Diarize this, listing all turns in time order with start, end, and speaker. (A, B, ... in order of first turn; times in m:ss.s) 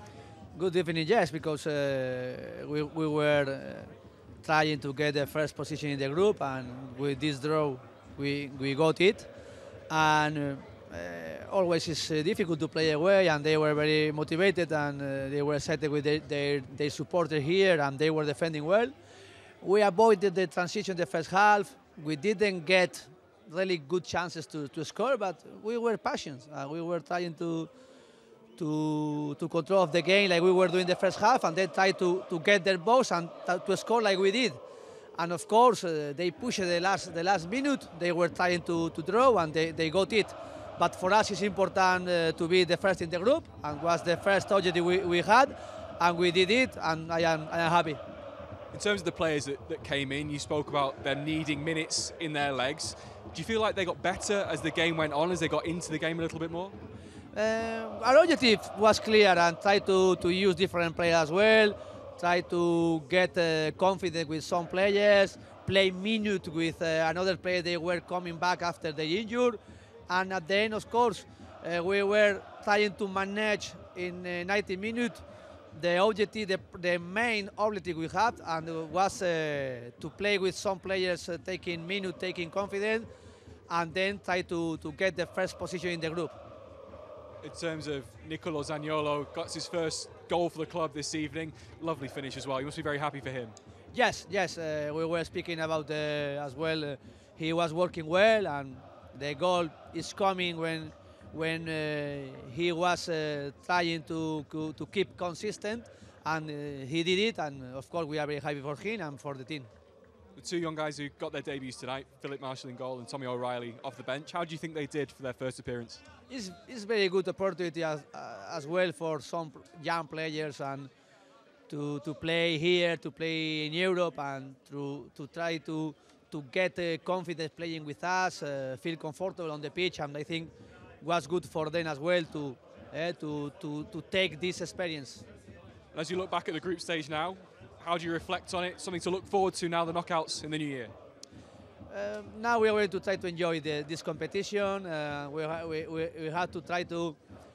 0:00.5-0:03.9 A
0:04.4-0:09.3 A
0:09.9-0:18.9 A
0:19.6-0:27.7 A
0:28.6-0:34.6 A
0:35.2-0:48.0 A
0:48.7-0:56.8 B
0:57.3-1:23.1 A
1:23.7-1:26.3 A
1:27.4-1:33.6 B
1:33.9-1:49.7 A
1:50.4-1:56.0 B
1:56.3-2:00.9 A
2:01.7-2:15.2 A
2:15.9-2:20.9 B
2:21.9-2:27.2 A